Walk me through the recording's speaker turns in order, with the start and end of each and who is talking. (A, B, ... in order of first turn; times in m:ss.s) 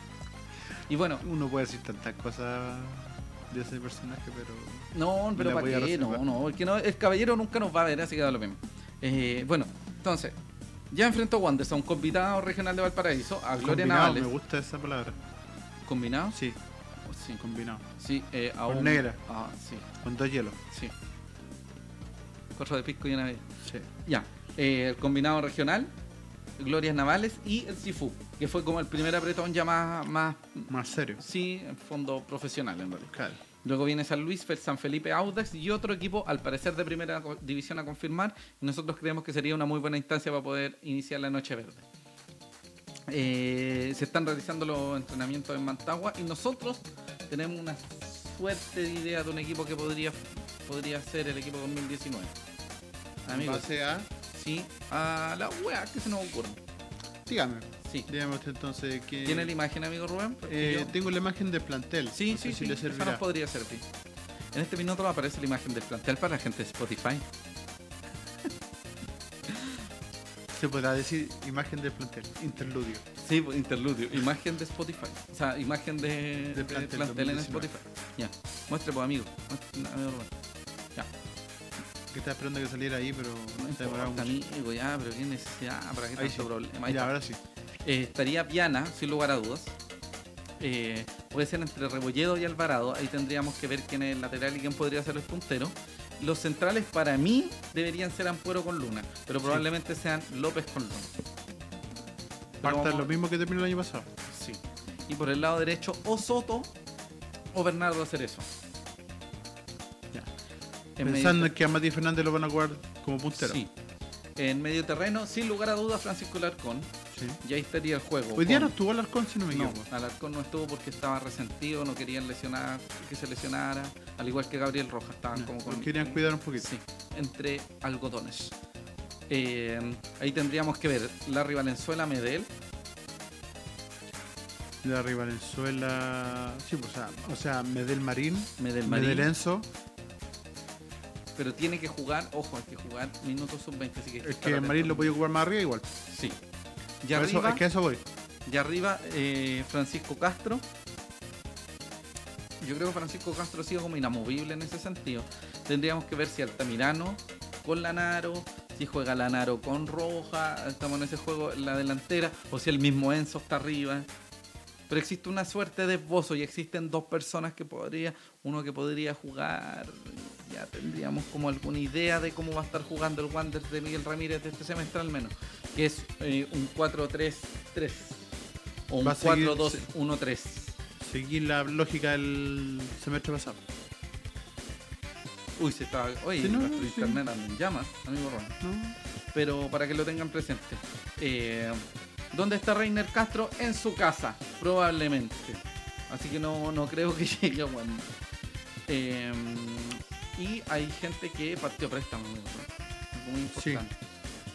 0:00.9-0:01.2 A
0:01.2-0:06.3 B
0:04.9-0:10.4 A
0:10.9-0:14.3 A
0:13.6-0:15.2 B
0:15.8-0:16.4 A
0:16.3-0:16.6 B
0:17.0-0:17.4 A
0:17.4-0:17.8 B
0:18.0-0:19.9 A
0:18.7-0:19.2 B
0:20.0-0:20.6 B
0:22.5-0:23.4 A
0:24.0-0:25.9 A
0:26.6-0:41.8 A
0:30.7-0:31.2 B
0:33.1-0:33.4 B
0:43.1-0:52.3 A
0:53.2-0:53.6 A
0:53.3-0:54.1 B
0:54.3-0:56.6 A
0:57.2-0:59.5 B
0:57.8-0:58.1 A
0:59.2-1:00.9 A
1:00.4-1:03.2 B
1:02.1-1:03.8 A
1:04.5-1:07.2 A
1:09.5-1:09.8 A
1:10.5-1:13.0 B
1:13.2-1:20.3 A
1:16.5-1:17.7 B
1:22.1-1:24.4 B
1:23.6-1:27.1 A
1:26.2-1:27.4 B
1:27.8-1:29.8 A
1:30.6-1:41.1 A
1:42.6-1:43.1 A
1:42.6-1:44.1 B
1:44.2-1:46.7 A
1:47.5-1:48.5 A
1:51.0-1:51.5 A
1:51.0-1:53.6 B
1:53.3-1:53.7 A
1:54.4-1:58.7 A
1:57.1-1:57.4 B
1:58.3-1:59.9 B
1:59.5-2:08.5 A
2:05.3-2:06.7 B
2:09.3-2:12.5 A
2:14.8-2:19.7 B
2:18.6-2:19.3 A
2:21.4-2:25.1 A
2:24.2-2:25.9 B
2:26.1-2:26.4 A
2:27.0-2:27.6 A
2:27.1-2:28.0 B
2:28.4-2:30.6 A
2:32.6-2:44.1 A
2:44.9-2:58.2 A
2:58.9-3:00.8 A
2:59.0-2:59.9 B
3:01.0-3:03.6 B
3:05.6-3:08.6 A
3:06.4-3:07.2 B
3:08.6-3:09.0 B
3:09.3-3:18.1 A
3:18.9-3:23.9 A
3:23.6-3:23.8 B